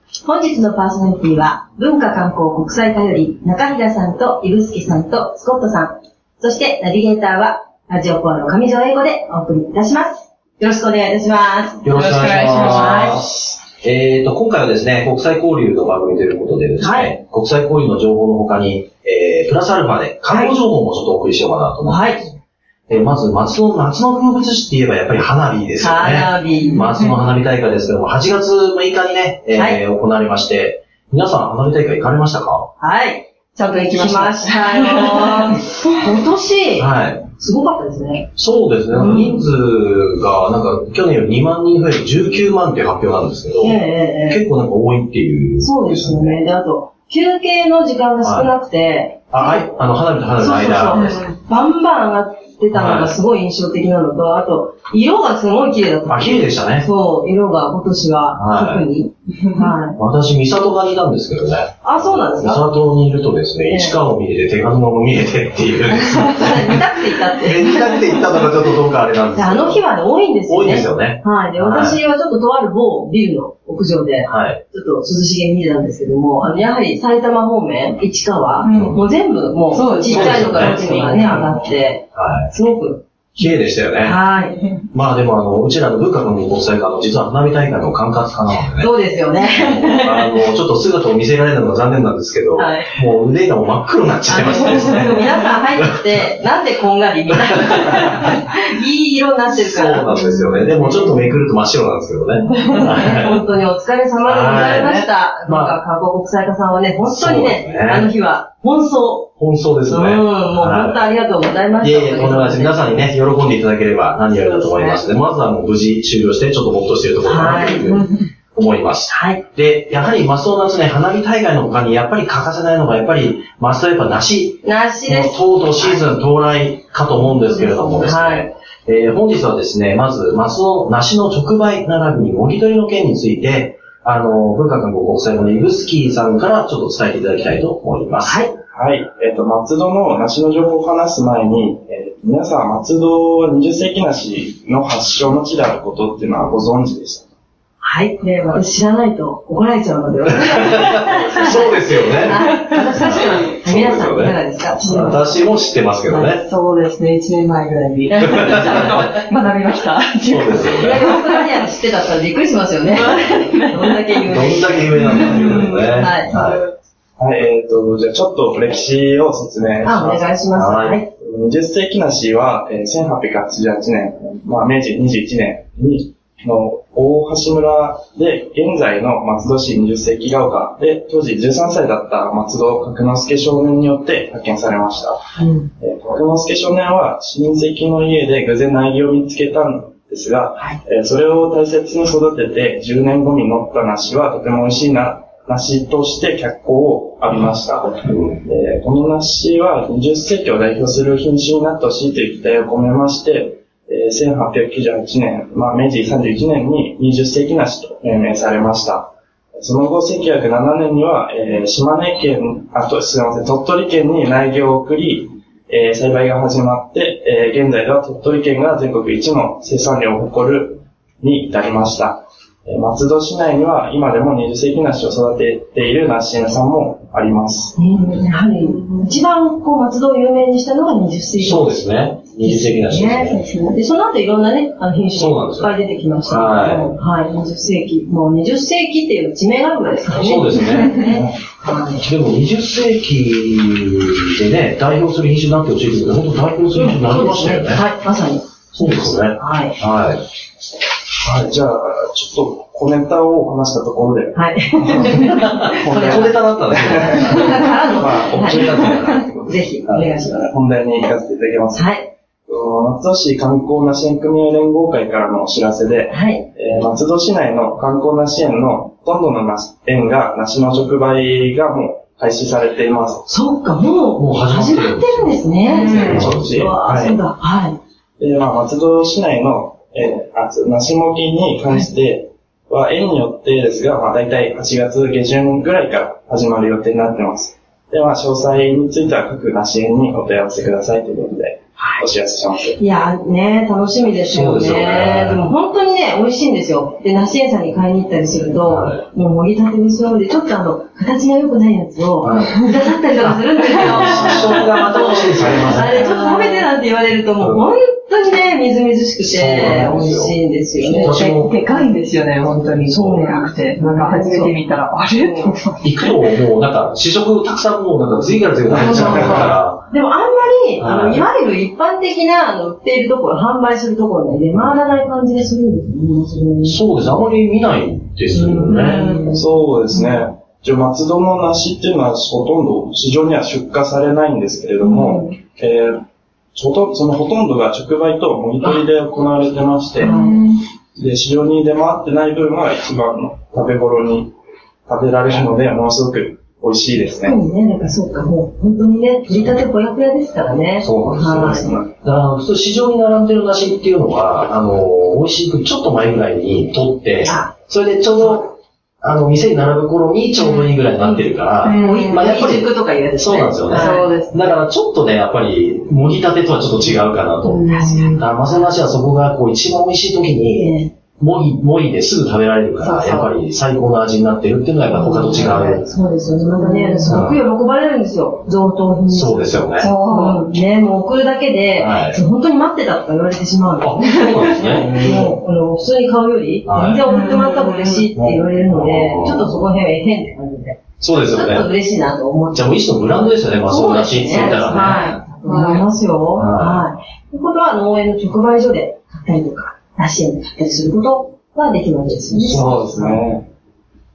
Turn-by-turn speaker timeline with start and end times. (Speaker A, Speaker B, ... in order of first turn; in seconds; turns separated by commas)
Speaker A: 0.2-11.9, Speaker B: 11.8-22.3, Speaker C: 11.9-13.1, Speaker A: 12.6-13.2, Speaker A: 16.8-17.1, Speaker A: 20.3-20.6, Speaker A: 21.9-22.3, Speaker B: 22.9-32.7, Speaker A: 25.8-26.8, Speaker C: 26.6-27.2, Speaker A: 29.5-29.8, Speaker A: 32.8-38.3, Speaker C: 33.5-36.0, Speaker B: 36.8-37.2, Speaker B: 38.4-46.4, Speaker A: 38.9-39.5, Speaker A: 43.6-44.4, Speaker A: 45.6-49.7, Speaker B: 48.2-48.5, Speaker B: 49.3-51.3, Speaker A: 50.4-60.0, Speaker C: 51.0-51.3, Speaker B: 52.7-53.2, Speaker B: 56.1-56.9, Speaker B: 58.3-58.9, Speaker B: 60.0-66.8, Speaker A: 61.8-62.6, Speaker A: 63.7-64.0, Speaker A: 66.2-67.9, Speaker B: 67.4-69.8, Speaker A: 69.3-83.0, Speaker B: 70.5-72.0, Speaker B: 74.3-74.6, Speaker C: 78.6-79.0, Speaker B: 78.7-79.0, Speaker C: 79.7-81.6, Speaker B: 80.1-81.1, Speaker B: 82.1-82.5, Speaker B: 83.4-84.2, Speaker A: 84.0-84.6, Speaker B: 84.9-88.9, Speaker A: 88.8-90.4, Speaker B: 89.5-96.2, Speaker A: 92.6-92.9, Speaker A: 94.3-101.3, Speaker C: 94.6-95.0, Speaker B: 99.6-103.5, Speaker A: 102.5-109.3, Speaker C: 102.5-102.9, Speaker B: 104.3-105.8, Speaker B: 107.0-108.1, Speaker B: 109.4-111.0, Speaker A: 109.9-113.1, Speaker B: 111.8-138.5, Speaker A: 114.3-115.0, Speaker A: 117.2-118.0, Speaker A: 119.1-119.4, Speaker A: 124.6-126.1, Speaker A: 127.3-128.5, Speaker A: 138.2-138.5, Speaker D: 138.7-147.3, Speaker A: 147.8-155.4, Speaker B: 150.4-156.4, Speaker C: 152.3-153.4, Speaker A: 156.1-156.4, Speaker C: 156.4-161.4, Speaker A: 158.1-159.1, Speaker B: 158.4-158.8, Speaker B: 160.3-161.1, Speaker A: 160.8-166.5, Speaker C: 162.9-164.2, Speaker B: 164.3-166.6, Speaker C: 164.9-166.7, Speaker D: 167.2-170.4, Speaker A: 169.8-171.1, Speaker B: 170.6-171.0, Speaker D: 171.2-185.2, Speaker A: 185.4-185.7, Speaker D: 185.8-227.8, Speaker B: 198.1-198.4, Speaker A: 227.8-231.8, Speaker C: 228.6-229.1, Speaker B: 231.4-233.4, Speaker A: 232.4-242.1, Speaker C: 233.3-233.8, Speaker B: 235.1-235.7, Speaker B: 236.3-236.9, Speaker B: 240.1-241.2, Speaker B: 242.0-247.8, Speaker A: 246.7-248.5, Speaker B: 248.7-250.2, Speaker A: 249.3-249.8, Speaker D: 251.2-259.6, Speaker A: 254.3-258.9, Speaker B: 255.3-257.9, Speaker B: 258.4-259.2, Speaker A: 259.4-260.5, Speaker B: 259.9-260.2, Speaker D: 260.4-261.9, Speaker A: 261.7-262.1, Speaker D: 262.5-273.3, Speaker A: 266.1-266.5, Speaker A: 273.3-277.8, Speaker B: 274.2-275.4, Speaker C: 275.7-276.2, Speaker D: 275.8-277.2, Speaker B: 276.0-276.7, Speaker D: 278.2-292.8, Speaker A: 292.8-311.2, Speaker B: 294.3-295.5, Speaker B: 298.7-299.1, Speaker B: 302.2-302.6, Speaker B: 303.2-306.0, Speaker C: 304.1-304.7, Speaker D: 305.4-306.0, Speaker C: 305.8-306.7, Speaker B: 307.4-307.7, Speaker B: 309.2-311.6, Speaker C: 310.9-316.2, Speaker A: 312.9-314.5, Speaker A: 315.2-315.5, Speaker B: 315.8-319.8, Speaker A: 318.8-326.8, Speaker C: 318.8-319.6, Speaker B: 320.8-321.3, Speaker B: 326.6-329.1, Speaker A: 328.3-329.4, Speaker C: 328.7-329.4, Speaker D: 329.3-336.0, Speaker A: 334.8-335.4, Speaker D: 336.6-340.2, Speaker A: 340.0-340.4, Speaker C: 340.0-340.6, Speaker D: 341.0-344.3, Speaker D: 344.9-347.4, Speaker A: 347.2-351.7, Speaker B: 350.8-375.9, Speaker D: 351.5-351.9, Speaker A: 357.2-357.5, Speaker A: 361.0-364.1, Speaker C: 361.6-362.2, Speaker C: 363.7-364.6, Speaker C: 367.5-368.2, Speaker A: 367.6-368.3, Speaker A: 370.5-370.9, Speaker C: 372.8-373.4, Speaker A: 374.9-403.2, Speaker C: 375.1-375.6, Speaker C: 376.6-377.2, Speaker B: 377.1-377.4, Speaker B: 379.1-379.9, Speaker C: 379.8-380.4, Speaker B: 381.8-382.2, Speaker B: 383.8-385.4, Speaker C: 384.8-385.2, Speaker B: 386.7-387.0, Speaker C: 387.1-388.1, Speaker B: 388.2-389.6, Speaker B: 391.0-391.7, Speaker B: 392.5-395.1, Speaker C: 394.5-395.9, Speaker B: 396.4-396.9, Speaker D: 402.3-403.5, Speaker B: 402.5-402.8